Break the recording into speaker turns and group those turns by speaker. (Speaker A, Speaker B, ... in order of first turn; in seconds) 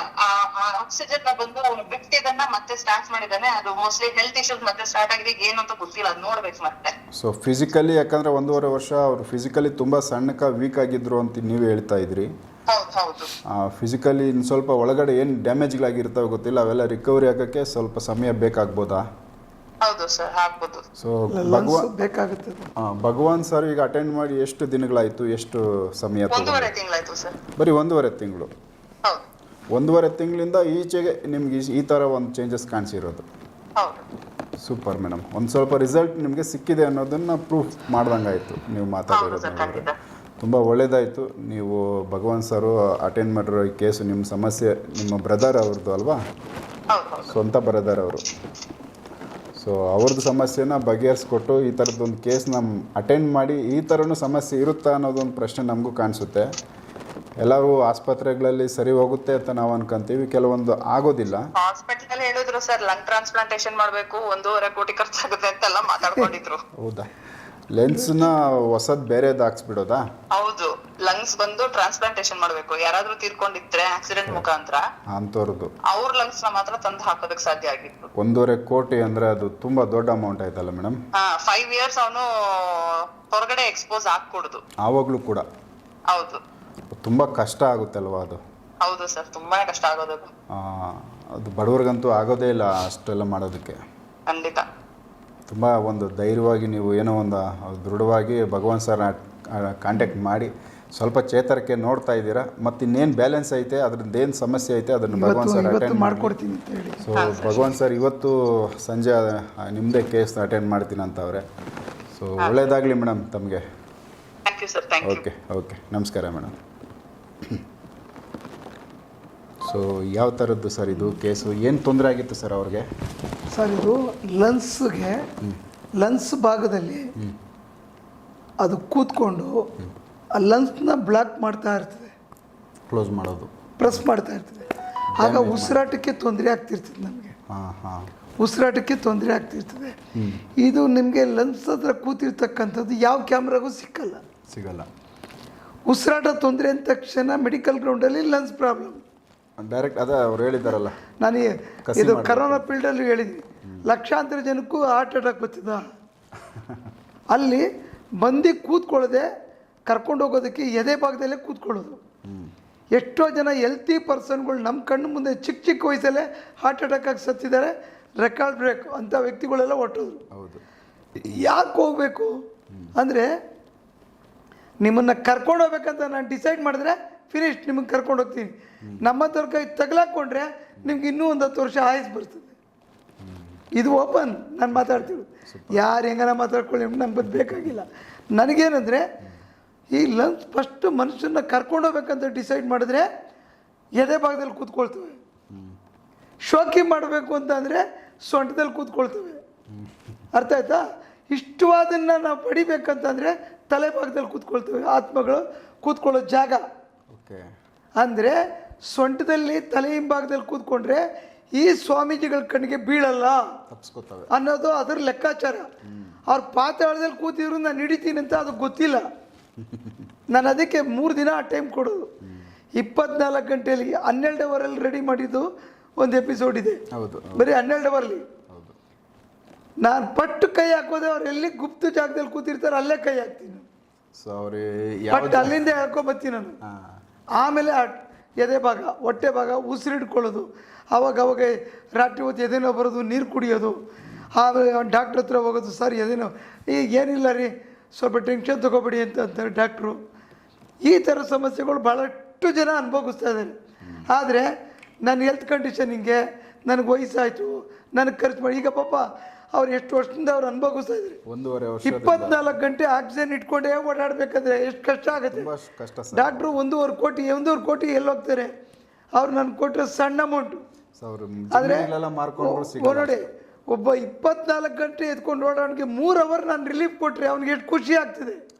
Speaker A: 0.1-6.9, 12.7-13.3, 19.8-20.8, 26.3-27.4, 33.8-34.0, 39.1-40.0, 46.9-47.3, 61.6-66.6, 70.3-74.8, 75.9-78.1, 81.2-84.6, 86.1-86.4, 88.8-90.3, 94.3-94.7, 107.2-107.8, 114.5-115.2
Speaker B: 7.2-12.3, 13.5-19.1, 21.0-21.9, 22.8-26.7, 27.6-28.5, 29.7-33.2, 34.6-39.9, 40.4-46.2, 47.3-48.3, 49.6-56.5, 57.4-61.5, 66.8-67.1, 67.7-70.0, 75.1-75.7, 78.2-81.0, 84.8-85.5, 87.0-88.4, 90.5-93.8, 95.5-106.3, 107.0-111.5, 112.1-113.6, 115.0-116.5, 119.6-122.9, 132.9-134.0, 135.2-135.8, 137.5-138.1, 140.2-140.4, 144.5-144.9, 149.6-150.9, 151.9-152.6, 156.5-156.8, 162.2-162.5, 170.3-170.6, 183.2-183.6, 184.7-185.8, 195.5-195.8, 199.7-200.1, 207.1-207.4, 213.7-214.3, 215.8-216.2, 219.6-220.1, 222.2-222.5, 226.9-227.5, 228.5-228.8, 234.2-235.7, 236.7-237.0, 261.3-262.5, 265.1-266.6, 271.0-273.3
Speaker C: 21.3-22.7, 105.1-107.1, 123.5-125.2, 126.0-127.1, 128.6-129.7, 130.3-132.1, 133.8-134.7, 135.2-137.3, 138.4-140.0, 140.6-144.2, 145.9-149.0, 151.2-155.8, 157.3-157.7, 158.2-159.3, 159.9-162.0, 162.9-170.2, 171.2-172.3, 173.0-173.3, 174.8-182.5, 183.8-189.0, 189.9-193.1, 194.0-195.2, 196.4-199.4, 200.3-206.6, 208.0-211.0, 211.6-213.4, 214.3-215.7, 216.3-219.1, 220.3-222.1, 222.8-225.4, 226.0-226.8, 227.4-228.2, 229.8-233.6, 235.1-236.6, 237.4-243.8, 244.3-250.0, 250.8-253.5, 254.1-254.5, 255.1-261.2, 261.9-265.5, 266.1-268.5, 269.1-270.6, 271.5-278.4